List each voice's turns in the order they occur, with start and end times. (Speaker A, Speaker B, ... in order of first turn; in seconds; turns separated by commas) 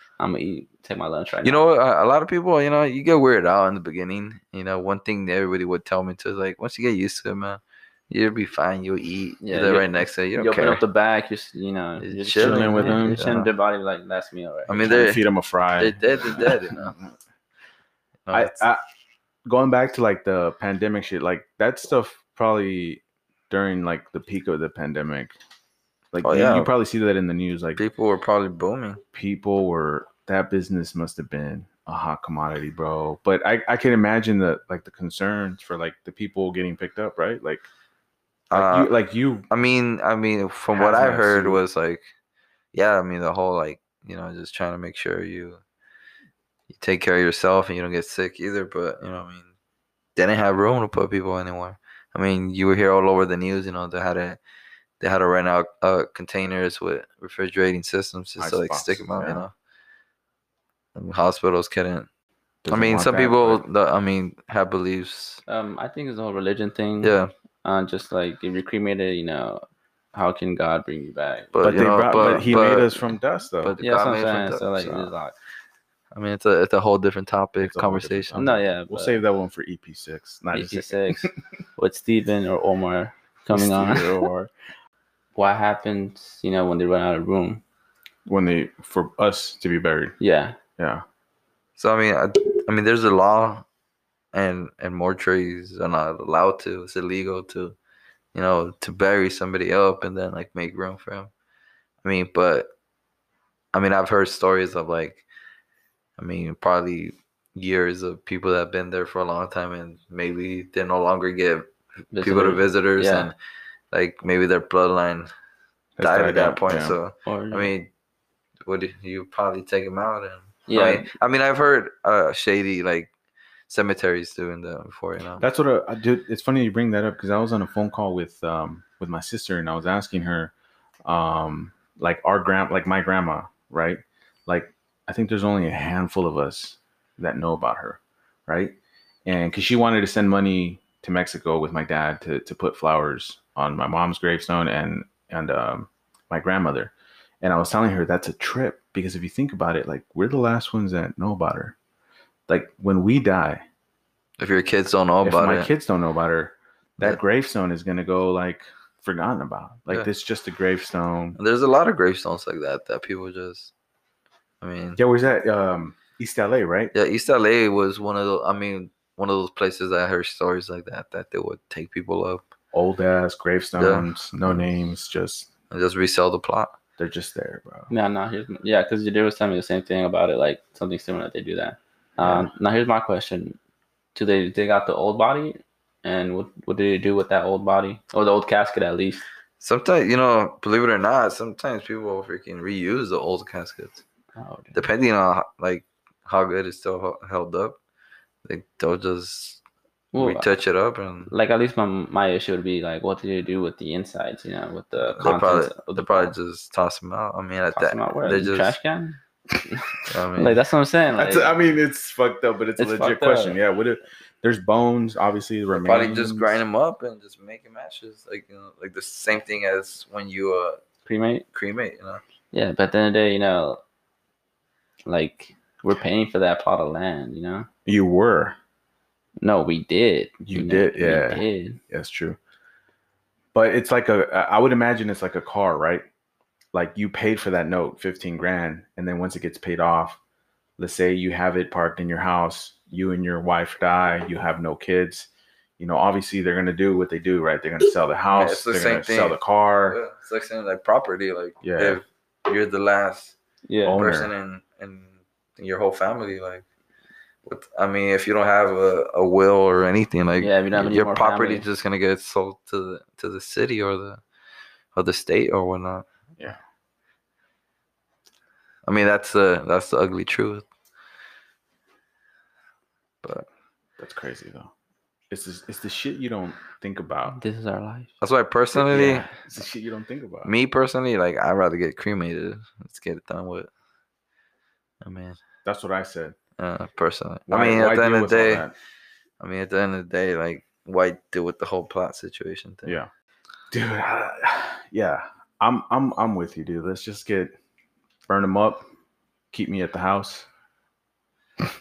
Speaker A: 0.2-1.6, Speaker B: 1.4-10.8, Speaker A: 9.4-15.0, Speaker B: 12.0-13.5, Speaker C: 12.4-13.5, Speaker B: 14.7-15.2, Speaker C: 14.8-17.1, Speaker B: 15.8-17.0, Speaker B: 18.3-18.7, Speaker C: 18.3-18.8, Speaker C: 19.5-25.3, Speaker C: 26.1-27.8, Speaker B: 26.2-26.7, Speaker B: 27.8-29.0, Speaker C: 29.1-37.7, Speaker B: 38.5-38.9, Speaker C: 38.5-39.5, Speaker B: 39.5-42.0, Speaker C: 40.7-41.6, Speaker B: 42.7-45.6, Speaker B: 46.7-49.5, Speaker B: 50.2-54.4, Speaker B: 55.0-59.5, Speaker C: 58.4-59.5, Speaker B: 61.0-62.1, Speaker C: 62.6-63.6, Speaker B: 62.7-65.4, Speaker A: 65.5-71.5, Speaker B: 67.0-67.3, Speaker B: 71.5-73.1, Speaker C: 71.6-73.8, Speaker B: 73.6-75.1, Speaker A: 73.8-75.3, Speaker B: 76.1-78.4, Speaker C: 77.6-81.3, Speaker A: 78.3-79.2, Speaker A: 80.5-84.5, Speaker C: 83.5-84.3, Speaker A: 85.4-87.6, Speaker C: 88.3-90.2, Speaker A: 90.2-90.6, Speaker C: 90.8-91.0, Speaker B: 91.8-93.7, Speaker B: 94.3-97.8, Speaker B: 98.3-101.3, Speaker B: 102.0-102.7, Speaker B: 103.7-105.2, Speaker B: 106.2-113.4, Speaker A: 112.1-113.3, Speaker B: 113.9-115.3, Speaker C: 116.0-117.0, Speaker B: 116.0-117.9, Speaker A: 117.3-117.7, Speaker B: 118.7-123.1, Speaker A: 120.7-121.1, Speaker B: 123.7-125.4, Speaker C: 125.4-130.5, Speaker C: 131.1-151.8, Speaker C: 152.5-153.6, Speaker B: 154.4-155.7, Speaker C: 155.2-161.4, Speaker B: 161.3-163.7, Speaker B: 164.6-165.0, Speaker C: 165.0-166.9, Speaker B: 166.9-172.5, Speaker C: 172.7-175.5, Speaker B: 173.8-174.6, Speaker B: 175.7-176.8, Speaker C: 177.0-177.9, Speaker A: 177.9-183.6, Speaker C: 182.2-182.5, Speaker A: 184.2-189.2, Speaker B: 189.6-194.0, Speaker A: 194.4-194.8, Speaker B: 194.7-197.8, Speaker B: 198.4-199.6, Speaker A: 200.1-200.5, Speaker B: 200.2-201.3, Speaker A: 201.3-206.3, Speaker B: 205.2-208.8, Speaker A: 207.8-211.5, Speaker B: 210.1-210.6, Speaker C: 211.2-216.6, Speaker A: 212.8-213.6, Speaker B: 215.7-220.8, Speaker A: 221.1-221.5, Speaker B: 221.5-222.2, Speaker A: 222.5-223.8, Speaker A: 225.1-227.7, Speaker C: 227.9-228.6, Speaker A: 229.4-231.8, Speaker C: 230.4-232.4, Speaker C: 233.5-236.1, Speaker C: 236.7-240.2, Speaker C: 240.8-250.0, Speaker B: 248.3-253.4, Speaker C: 251.6-252.0, Speaker A: 253.7-254.0, Speaker C: 253.8-254.3, Speaker B: 253.9-256.6, Speaker B: 257.5-264.2, Speaker A: 260.4-261.7, Speaker B: 264.9-266.1, Speaker B: 268.9-270.6, Speaker C: 274.0-274.7, Speaker C: 275.3-277.4, Speaker A: 277.3-278.1, Speaker B: 278.2-279.3, Speaker C: 278.8-280.5, Speaker A: 278.9-279.3, Speaker B: 280.4-283.7, Speaker B: 285.0-285.4, Speaker C: 285.6-286.4, Speaker B: 286.6-288.7, Speaker C: 287.5-288.7, Speaker B: 289.4-293.0, Speaker C: 292.9-293.1, Speaker C: 293.7-297.6, Speaker C: 298.3-298.9, Speaker C: 299.5-300.5